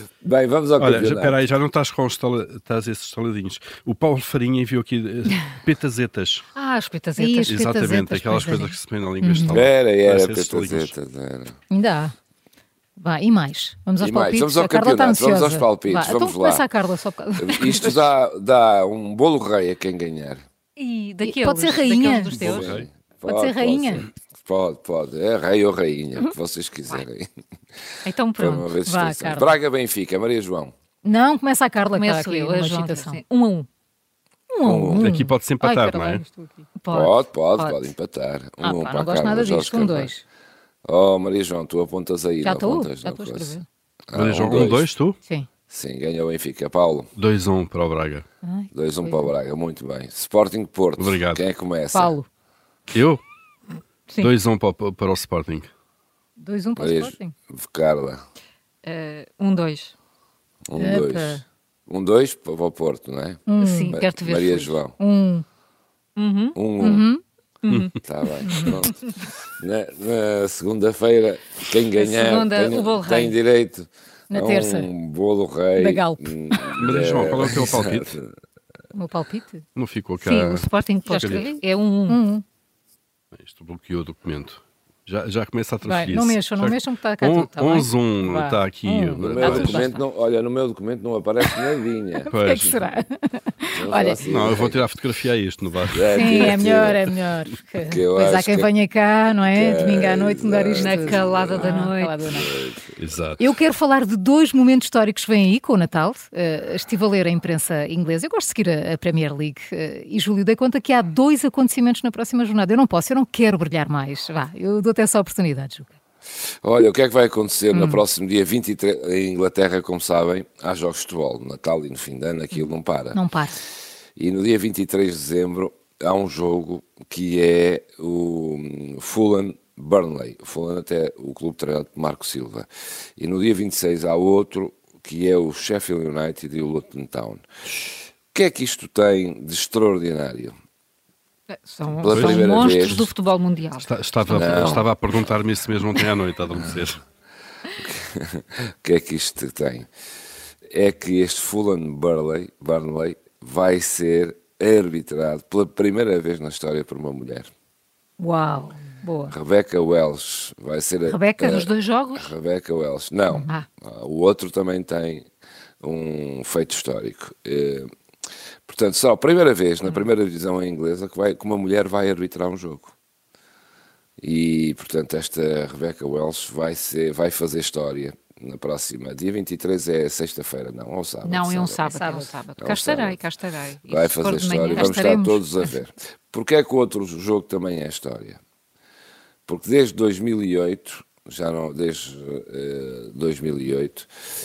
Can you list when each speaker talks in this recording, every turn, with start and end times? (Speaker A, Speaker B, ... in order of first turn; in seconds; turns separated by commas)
Speaker A: 0.2-1.4, Speaker B: 0.8-6.5, Speaker C: 6.5-7.5, Speaker D: 7.2-9.6, Speaker B: 7.4-10.9, Speaker A: 9.5-11.6, Speaker D: 11.7-12.1, Speaker D: 13.0-18.1, Speaker A: 14.0-16.7, Speaker A: 17.4-20.4, Speaker C: 20.8-22.7, Speaker D: 21.2-22.3, Speaker B: 22.3-22.9, Speaker A: 22.4-27.3, Speaker D: 23.2-24.0, Speaker C: 28.0-28.7, Speaker A: 28.4-30.7, Speaker D: 28.9-29.6, Speaker D: 31.0-33.2, Speaker C: 32.0-33.7, Speaker D: 34.5-36.7, Speaker A: 34.6-35.1, Speaker B: 35.0-36.2, Speaker C: 36.8-37.9, Speaker A: 36.9-40.1, Speaker D: 38.6-40.2, Speaker A: 40.9-44.9, Speaker D: 42.4-43.6, Speaker B: 44.1-45.2, Speaker A: 45.7-47.1, Speaker B: 47.1-48.2, Speaker D: 48.4-49.3, Speaker A: 48.7-52.1, Speaker B: 51.0-51.4, Speaker D: 51.9-52.3, Speaker B: 52.9-53.2, Speaker B: 54.2-55.7, Speaker D: 56.4-57.3, Speaker A: 56.8-58.2, Speaker C: 58.8-59.9, Speaker A: 60.7-65.0, Speaker D: 60.7-61.4, Speaker D: 63.5-64.0, Speaker C: 63.6-64.8, Speaker D: 65.0-65.4, Speaker C: 66.2-66.6, Speaker A: 66.5-67.0, Speaker D: 66.8-67.2, Speaker C: 67.6-67.9, Speaker A: 68.0-69.0, Speaker D: 68.4-68.8, Speaker C: 68.5-69.2, Speaker A: 69.6-78.3, Speaker C: 71.9-73.4, Speaker D: 74.3-74.9, Speaker D: 75.8-76.8, Speaker B: 76.8-78.1, Speaker D: 78.9-79.6, Speaker B: 79.8-81.5, Speaker C: 80.2-82.2, Speaker D: 81.1-81.6, Speaker D: 82.1-82.4, Speaker B: 83.3-89.9, Speaker D: 85.8-90.0, Speaker A: 89.2-92.3, Speaker D: 92.2-94.2, Speaker B: 92.3-92.8, Speaker A: 93.7-94.9, Speaker B: 94.2-96.6, Speaker A: 95.9-97.0, Speaker D: 96.1-102.5, Speaker A: 97.8-98.7, Speaker A: 99.5-103.0, Speaker C: 100.7-102.3, Speaker B: 103.0-103.4, Speaker D: 103.4-115.9, Speaker A: 116.6-123.2, Speaker D: 117.7-118.0, Speaker D: 123.1-123.6, Speaker A: 124.2-137.4, Speaker A: 138.3-140.5, Speaker C: 141.5-144.8, Speaker A: 142.0-143.1, Speaker B: 142.1-143.1, Speaker B: 143.8-147.0, Speaker A: 144.2-144.9, Speaker A: 147.7-149.9, Speaker A: 150.7-157.5, Speaker C: 158.2-158.8, Speaker D: 158.4-159.3, Speaker A: 159.3-165.3, Speaker C: 161.1-162.3, Speaker A: 165.8-167.9, Speaker A: 168.7-172.9, Speaker A: 174.2-181.8, Speaker C: 181.2-185.1, Speaker D: 181.8-182.3, Speaker A: 182.6-183.2, Speaker A: 183.8-188.4, Speaker D: 184.7-185.7, Speaker A: 189.5-194.1